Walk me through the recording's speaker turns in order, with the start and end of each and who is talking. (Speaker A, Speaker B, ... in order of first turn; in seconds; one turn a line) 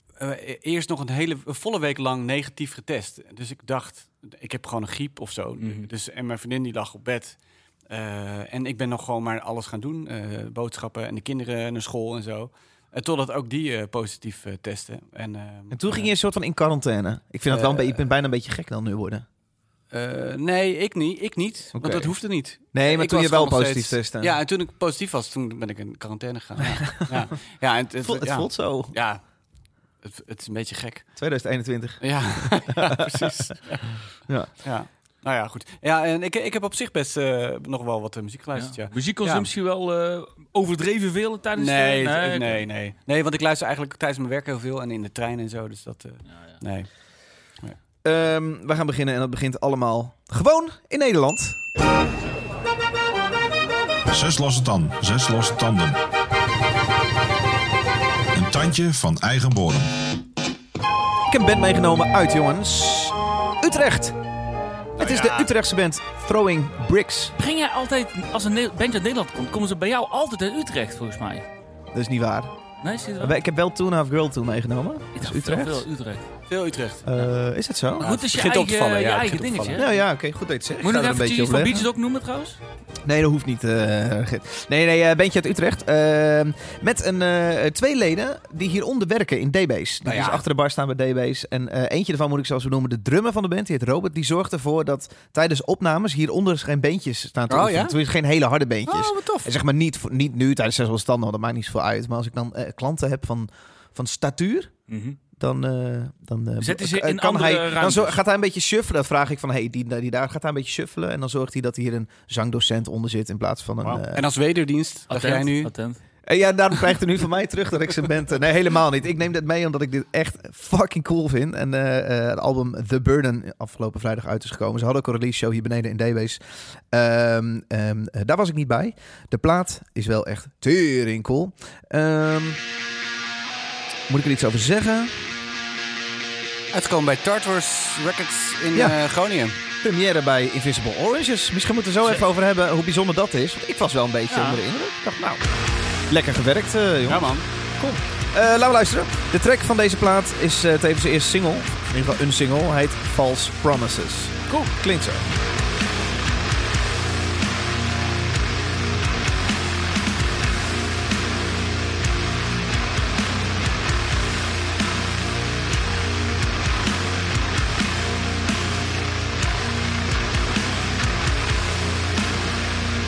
Speaker A: 0.2-16.1
Speaker B: 5.6-5.9
Speaker C: 15.7-19.2
Speaker A: 17.5-18.0
Speaker A: 19.9-29.2
Speaker C: 21.8-22.1
Speaker C: 22.7-24.3
Speaker C: 26.7-27.1
Speaker C: 28.0-28.9
Speaker A: 30.0-31.1
Speaker C: 31.2-33.3
Speaker A: 32.0-34.0
Speaker A: 34.6-39.5
Speaker B: 38.6-42.6
Speaker A: 41.6-46.9
Speaker C: 48.0-51.6
Speaker D: 54.1-56.0
Speaker D: 58.3-59.9
Speaker C: 61.3-64.2
Speaker A: 65.0-65.5
Speaker C: 65.0-67.3
Speaker B: 67.4-71.5
Speaker C: 71.9-72.5
Speaker B: 72.8-73.4
Speaker C: 73.2-75.8
Speaker B: 75.1-76.3
Speaker A: 76.5-77.0
Speaker C: 77.0-78.0
Speaker A: 78.0-79.8
Speaker B: 78.0-80.0
Speaker C: 79.8-81.9
Speaker B: 80.8-82.6
Speaker C: 83.0-104.7
Speaker A: 90.0-90.4
Speaker A: 97.5-98.0
Speaker A: 98.9-99.5
Speaker B: 104.9-105.2
Speaker C: 105.4-114.2
Speaker B: 106.6-108.2
Speaker A: 113.8-115.7
Speaker B: 115.1-116.0
Speaker C: 116.2-126.4
Speaker C: 126.9-132.6
Speaker C: 134.1-135.2
Speaker A: 136.7-139.6
Speaker C: 139.8-145.4
Speaker B: 144.3-144.6
Speaker C: 146.1-147.3
Speaker A: 147.1-147.4
Speaker C: 147.8-155.2